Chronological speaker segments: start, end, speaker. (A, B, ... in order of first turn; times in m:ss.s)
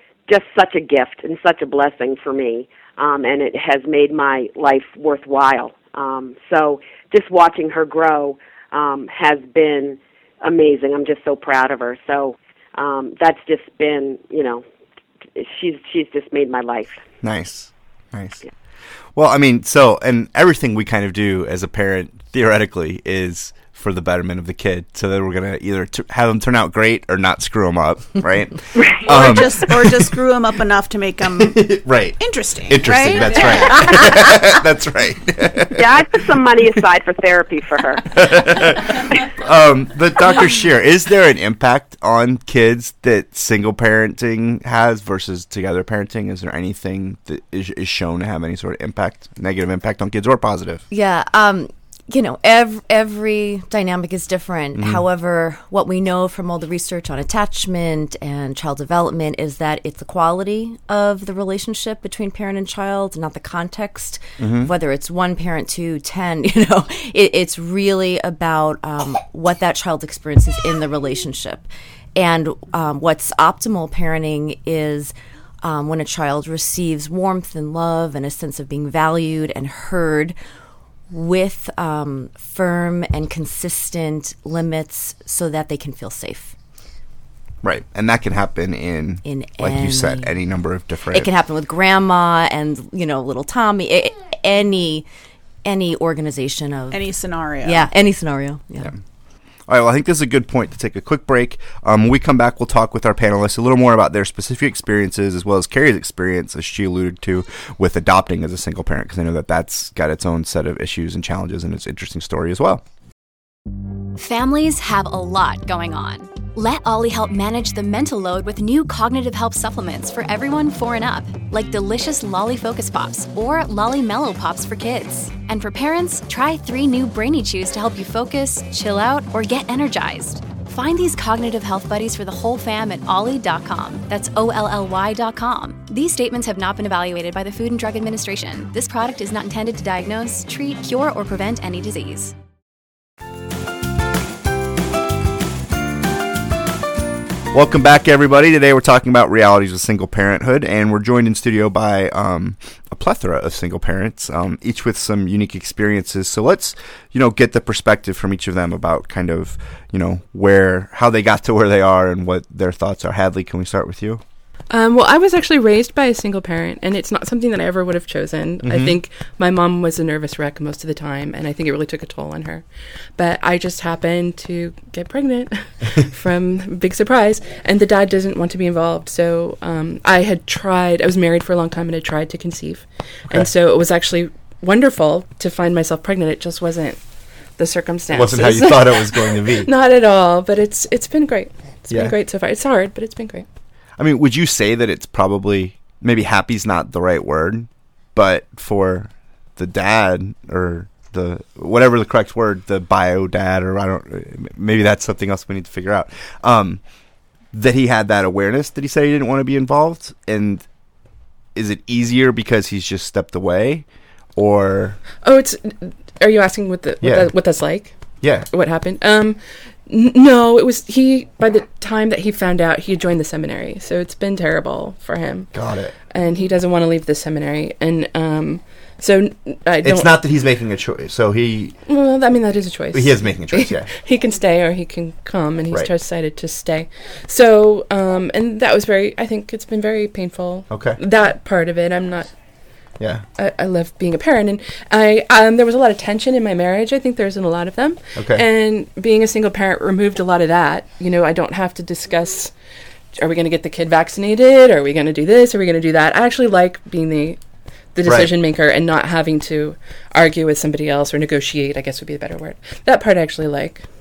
0:00.3-0:14.6 A
0:15.4-0:17.0 A
0:17.2-0:18.4 B
0:19.2-0:30.2 B
0:29.0-0:34.2 C
0:31.4-0:36.2 B
0:35.8-0:38.2 A
0:38.1-0:50.8 B
0:50.9-1:20.4 D
0:54.8-0:55.0 B
1:04.4-1:04.7 B
1:21.1-1:26.6 D
1:27.6-1:31.3 B
1:29.2-1:30.4 D
1:31.1-1:35.1 D
1:35.6-1:37.1 D
1:36.9-1:37.9 C
1:37.6-1:38.9 D
1:39.7-1:52.8 B
1:54.2-2:22.3 E
2:27.5-2:44.2 B
2:44.7-3:13.5 F
2:48.6-2:49.0 B
3:08.1-3:09.7 B
3:11.9-3:12.2 B
3:14.0-3:26.8 B
3:27.5-3:30.6 B
3:31.6-3:35.0 B
3:35.2-3:50.2 F
3:37.0-3:37.3 B
3:38.2-3:38.5 B
3:45.5-3:46.0 B
3:49.8-3:51.8 B
3:51.8-4:02.4 F
3:52.9-3:53.9 B
4:00.7-4:01.0 B
4:03.0-4:03.3 B
4:03.4-4:12.6 F
4:08.2-4:08.4 B
4:13.1-4:23.9 F
4:18.0-4:18.3 B